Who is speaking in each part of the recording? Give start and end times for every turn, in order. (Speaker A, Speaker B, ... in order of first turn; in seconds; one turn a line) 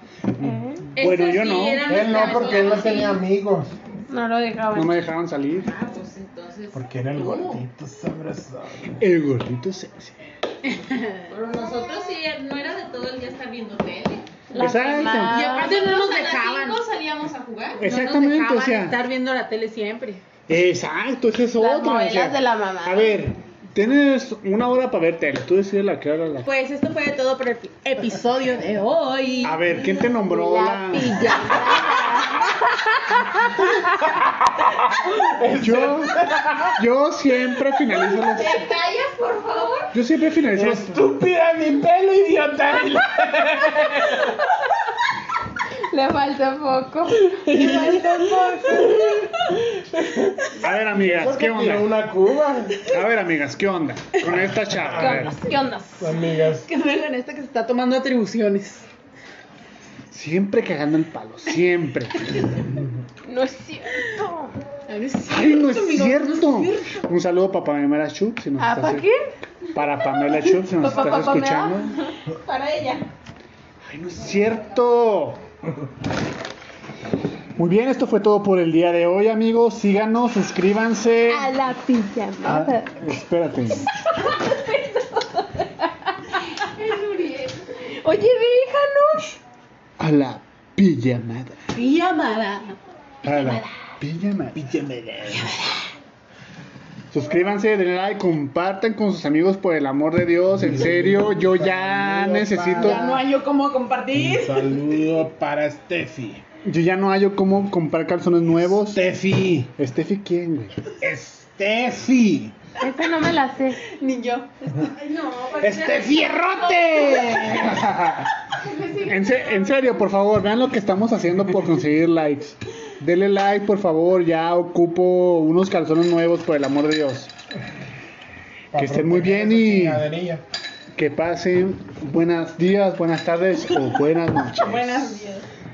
Speaker A: 0.4-1.0
Speaker B: 0.9-2.0
Speaker C: 1.0-3.0
Speaker A: 1.8-3.1
Speaker D: 1.9-3.8
Speaker E: 2.1-3.0
Speaker A: 4.1-5.1
Speaker B: 4.7-5.7
Speaker C: 5.7-7.6
Speaker D: 6.7-9.0
Speaker B: 8.9-10.2
Speaker E: 10.6-11.2
Speaker C: 11.3-17.8
Speaker A: 14.5-15.8
Speaker B: 14.6-15.4
Speaker E: 14.9-16.8
Speaker B: 17.8-19.0
Speaker E: 17.8-20.2
Speaker B: 20.5-26.5
Speaker A: 21.6-23.3
Speaker E: 26.4-29.8
Speaker B: 29.4-31.3
Speaker A: 29.8-32.4
Speaker E: 30.9-31.6
Speaker D: 31.6-32.5
Speaker D: 33.7-36.8
Speaker B: 35.6-36.2
Speaker B: 36.8-38.6
Speaker A: 38.1-39.9
Speaker C: 38.5-38.8
Speaker B: 39.9-41.0
Speaker D: 40.5-44.4
Speaker A: 45.9-49.3
Speaker D: 47.4-52.9
Speaker E: 47.6-47.9
Speaker B: 50.6-51.9
Speaker B: 52.8-55.4
Speaker D: 54.6-55.4
Speaker A: 55.0-55.9
Speaker E: 55.4-56.0
Speaker D: 56.0-56.6
Speaker E: 56.6-58.9
Speaker B: 60.1-62.5
Speaker A: 63.2-64.5
Speaker E: 64.9-67.0
Speaker B: 65.3-69.1
Speaker E: 68.6-69.0
Speaker A: 68.6-69.1
Speaker B: 69.7-72.0
Speaker A: 70.7-73.0
Speaker B: 73.8-75.4
Speaker B: 77.5-81.5
Speaker A: 81.3-83.0
Speaker B: 82.4-83.9
Speaker A: 84.2-85.4
Speaker A: 86.6-89.3
Speaker B: 90.0-91.6
Speaker E: 91.7-93.6
Speaker B: 93.2-94.9
Speaker D: 94.5-95.5
Speaker B: 97.1-103.1
Speaker D: 100.5-103.2
Speaker E: 102.7-104.8
Speaker D: 104.1-106.4
Speaker B: 106.6-109.0
Speaker D: 108.9-109.7
Speaker B: 109.8-110.8
Speaker D: 111.0-112.5
Speaker A: 112.8-113.8
Speaker E: 113.9-115.6
Speaker A: 115.3-116.1
Speaker D: 115.6-118.1
Speaker B: 117.7-118.3
Speaker A: 118.7-119.8
Speaker B: 119.0-127.3
Speaker D: 128.7-130.4
Speaker B: 128.7-130.0
Speaker B: 130.9-135.2
Speaker E: 134.6-135.4